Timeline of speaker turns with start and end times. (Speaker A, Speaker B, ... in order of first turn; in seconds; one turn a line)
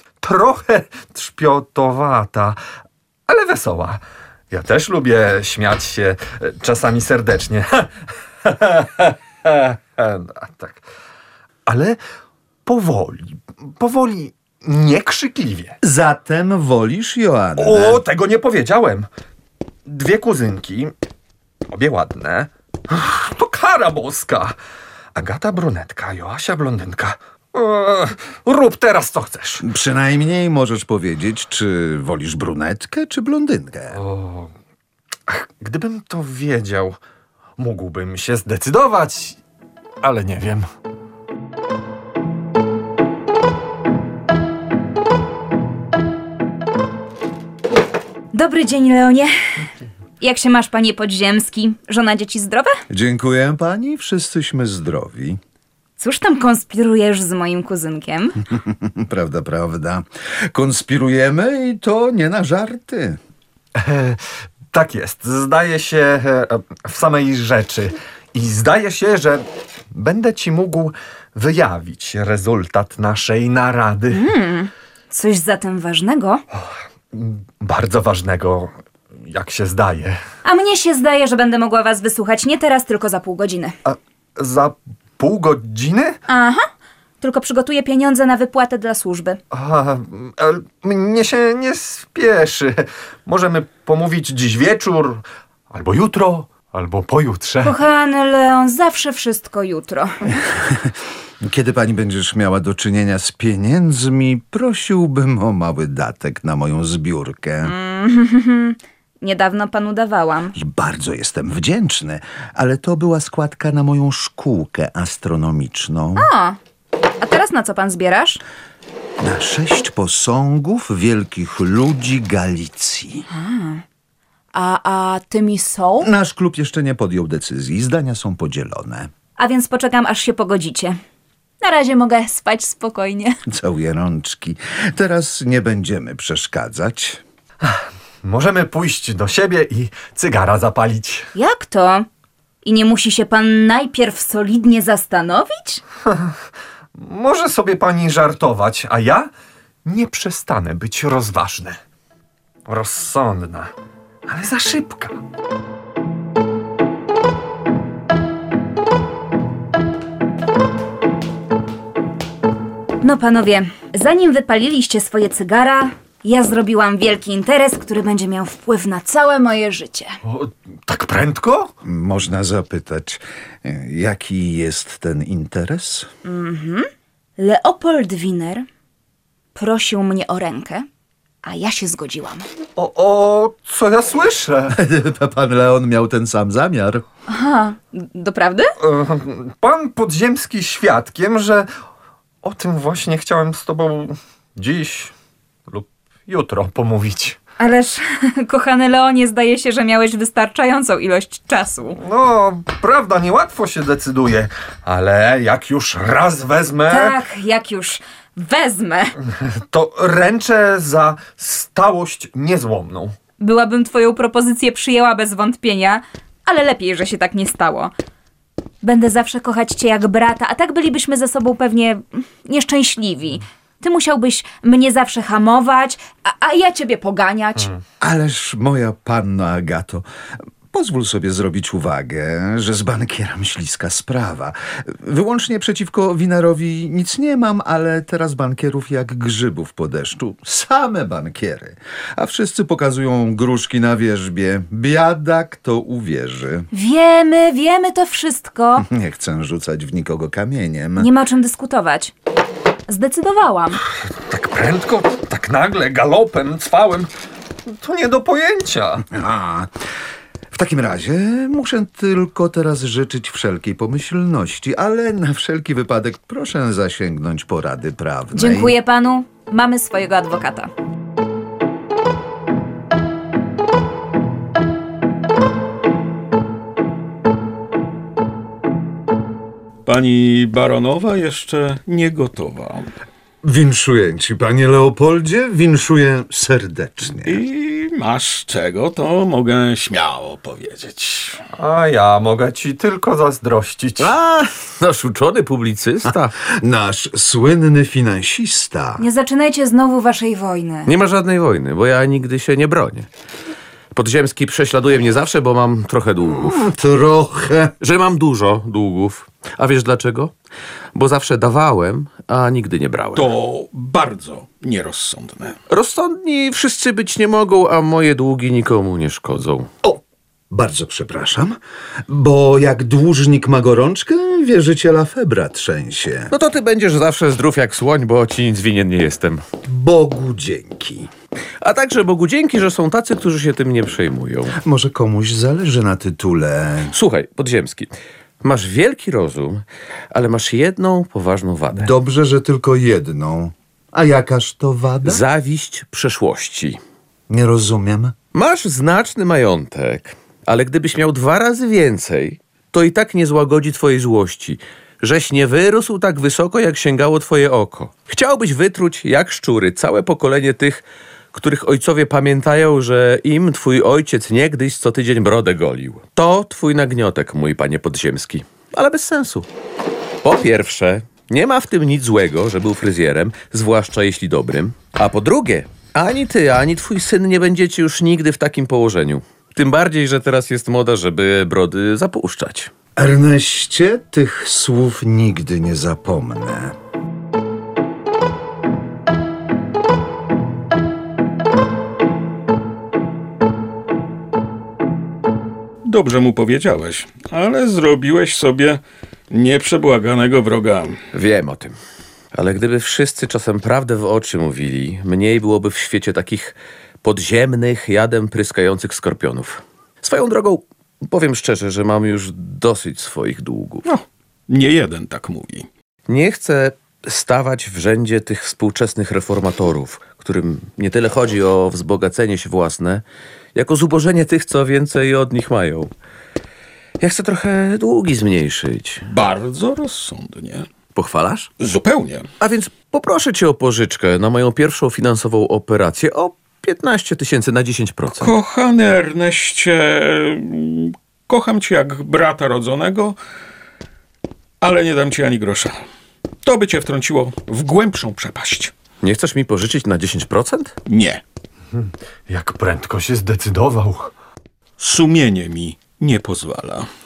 Speaker A: 0.2-2.6
Speaker A: 3.3-7.9
Speaker A: 8.4-10.8
Speaker A: 11.7-12.0
Speaker A: 12.7-15.8
Speaker B: 15.8-18.0
Speaker A: 17.6-19.1
Speaker A: 19.9-20.9
Speaker A: 21.7-24.5
Speaker A: 25.1-29.6
Speaker B: 29.6-34.0
Speaker A: 33.9-34.5
Speaker A: 35.3-37.0
Speaker A: 37.6-39.4
Speaker A: 40.0-40.7
Speaker C: 48.3-49.3
Speaker C: 50.2-52.8
Speaker B: 52.9-55.4
Speaker C: 56.0-58.4
Speaker B: 58.5-63.2
Speaker A: 63.8-64.2
Speaker A: 64.7-74.2
Speaker C: 74.1-76.4
Speaker A: 76.5-78.7
Speaker A: 79.2-80.2
Speaker C: 80.4-83.8
Speaker A: 83.9-86.2
Speaker C: 86.3-86.7
Speaker C: 87.2-89.4
Speaker A: 89.5-97.8
Speaker C: 97.6-100.1
Speaker B: 101.4-107.7
Speaker C: 107.6-110.6
Speaker B: 110.5-116.3
Speaker C: 116.2-116.6
Speaker C: 117.2-118.4
Speaker B: 119.2-123.2
Speaker C: 123.3-123.8
Speaker C: 124.5-126.1
Speaker B: 126.0-129.1
Speaker C: 129.4-131.0
Speaker C: 131.6-133.3
Speaker B: 133.5-137.2
Speaker A: 137.6-141.3
Speaker C: 141.3-142.1
Speaker C: 142.6-145.8
Speaker A: 146.1-146.3
Speaker A: 147.0-149.3
Speaker A: 149.8-151.8
Speaker A: 152.7-153.7
Speaker A: 154.3-155.2
Speaker C: 163.0-170.2
Speaker A: 170.3-171.7
Speaker B: 171.8-176.1
Speaker C: 176.2-178.7
Speaker C: 179.6-180.9
Speaker C: 181.4-182.5
Speaker A: 182.8-184.7
Speaker B: 184.7-187.1
Speaker C: 187.3-188.7
Speaker A: 188.8-191.7
Speaker A: 192.4-195.1
Speaker A: 195.7-197.4
Speaker C: 197.6-202.0
Speaker A: 202.0-207.2
Speaker C: 206.9-209.2
Speaker A: 209.3-213.2
Speaker C: 213.4-217.9
Speaker C: 218.8-227.7
Speaker B: 228.0-230.1
Speaker B: 230.7-246.7
Speaker C: 246.7-248.9
Speaker B: 248.8-251.1
Speaker C: 251.0-252.1
Speaker C: 252.9-253.8
Speaker A: 254.1-257.1
Speaker A: 257.8-259.1
Speaker B: 259.1-259.7
Speaker B: 260.5-268.8
Speaker C: 268.3-270.7
Speaker D: 279.9-282.9
Speaker B: 283.4-287.4
Speaker D: 287.2-291.4
Speaker A: 291.5-294.1
Speaker E: 294.0-296.3
Speaker B: 296.1-299.1
Speaker C: 299.0-300.9
Speaker E: 300.9-303.1
Speaker E: 303.9-306.6
Speaker B: 306.3-307.7
Speaker E: 307.8-310.3
Speaker E: 310.9-313.3
Speaker D: 313.1-315.6
Speaker E: 315.7-319.7
Speaker B: 319.8-321.6
Speaker B: 322.1-326.3
Speaker E: 326.3-329.4
Speaker B: 329.7-331.1
Speaker E: 331.6-334.6
Speaker B: 334.6-336.9
Speaker E: 336.9-341.9
Speaker B: 341.7-345.2
Speaker E: 345.0-346.8
Speaker B: 347.3-348.2
Speaker E: 348.3-369.5
Speaker E: 370.2-382.7
Speaker B: 383.0-386.8
Speaker D: 395.9-401.0
Speaker E: 401.1-401.8
Speaker E: 402.3-413.8
Speaker D: 413.9-415.7
Speaker E: 416.1-423.0
Speaker E: 423.6-425.9
Speaker E: 427.0-429.0
Speaker D: 429.1-430.7
Speaker E: 430.9-431.5
Speaker D: 431.6-432.3
Speaker E: 432.4-438.3
Speaker D: 438.1-443.2
Speaker D: 444.6-445.8
Speaker D: 446.4-448.8
Speaker E: 449.0-450.7
Speaker D: 450.9-451.2
Speaker A: 451.7-454.1
Speaker D: 454.8-456.9